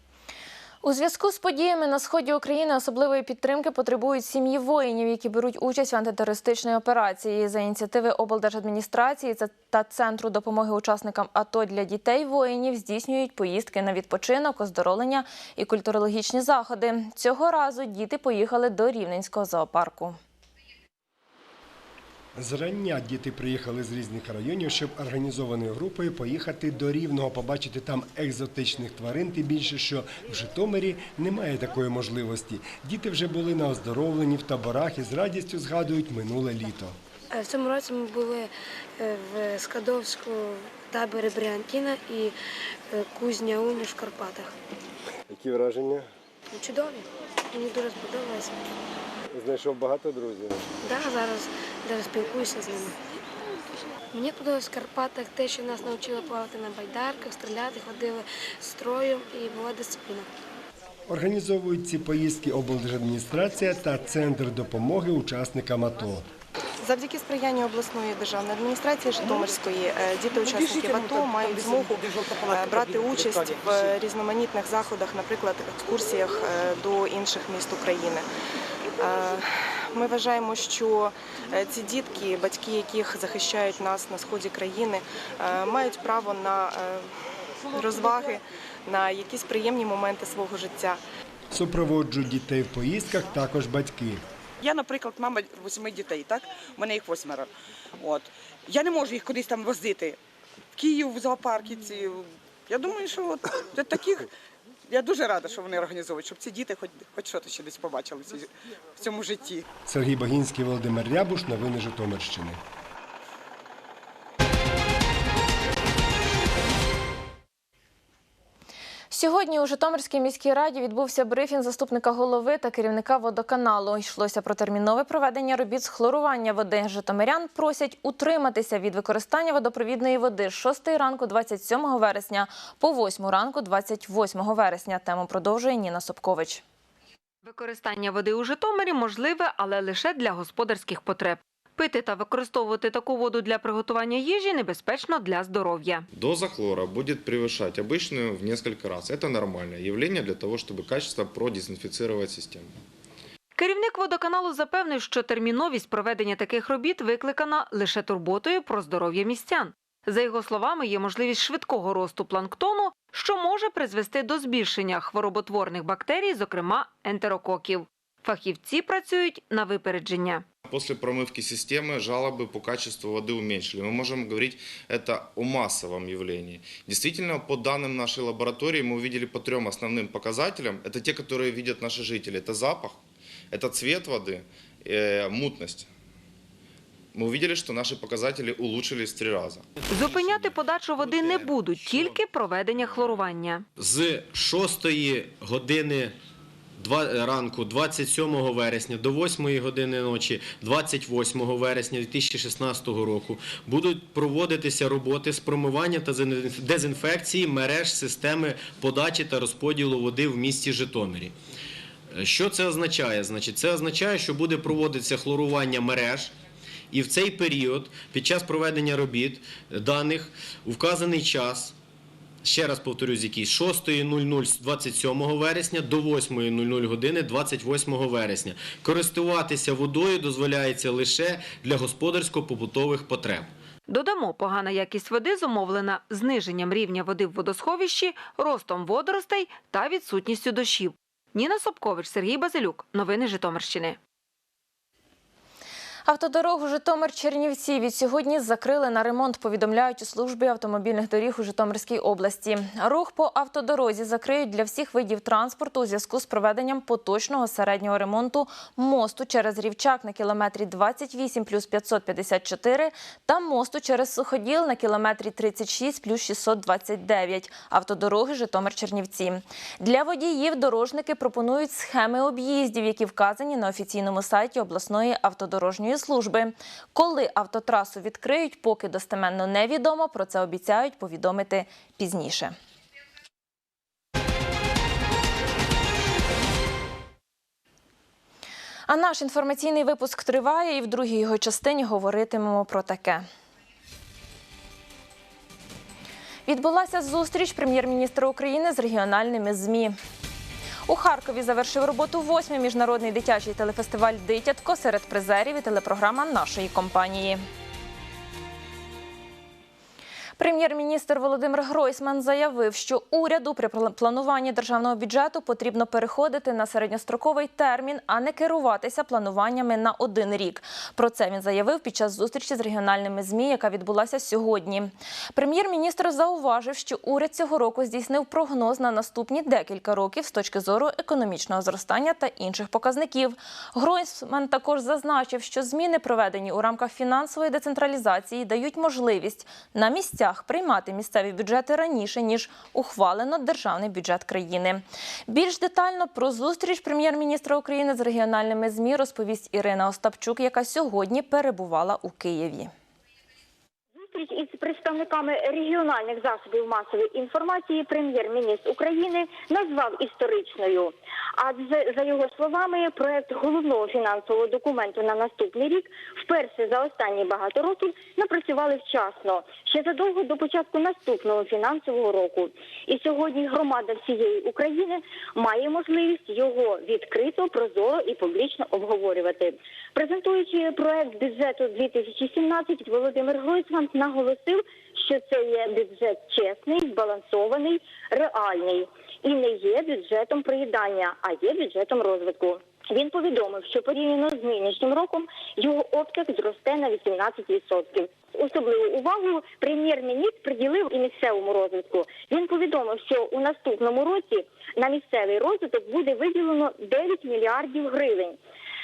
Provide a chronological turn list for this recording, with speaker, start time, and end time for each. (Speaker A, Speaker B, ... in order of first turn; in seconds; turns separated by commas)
Speaker A: 0.8-20.2, Speaker B: 22.4-37.0, Speaker C: 37.3-42.4, Speaker C: 42.9-44.5, Speaker B: 45.3-46.1, Speaker C: 46.5-48.6, Speaker B: 49.3-50.7, Speaker C: 50.8-53.0, Speaker C: 54.1-60.3, Speaker B: 61.1-66.3, Speaker D: 66.8-78.3, Speaker E: 70.7-71.1, Speaker E: 72.5-73.6, Speaker D: 79.0-87.1, Speaker D: 87.7-91.0, Speaker B: 91.5-94.2, Speaker E: 94.6-100.2, Speaker E: 100.8-104.3, Speaker E: 104.9-109.6, Speaker B: 109.9-112.6, Speaker A: 119.1-136.6, Speaker F: 137.4-146.1, Speaker G: 146.1-152.7, Speaker F: 153.6-170.4, Speaker G: 170.7-183.0, Speaker G: 183.5-185.9, Speaker G: 187.1-189.7, Speaker F: 189.9-193.7, Speaker H: 193.8-196.2, Speaker H: 196.8-211.3, Speaker H: 212.1-216.3, Speaker H: 216.9-221.8, Speaker H: 222.4-233.5, Speaker F: 233.9-244.0, Speaker A: 246.1-282.6, Speaker A: 288.9-293.2, Speaker A: 296.5-299.9, Speaker A: 300.9-307.4, Speaker A: 310.4-352.7, Speaker I: 353.9-408.4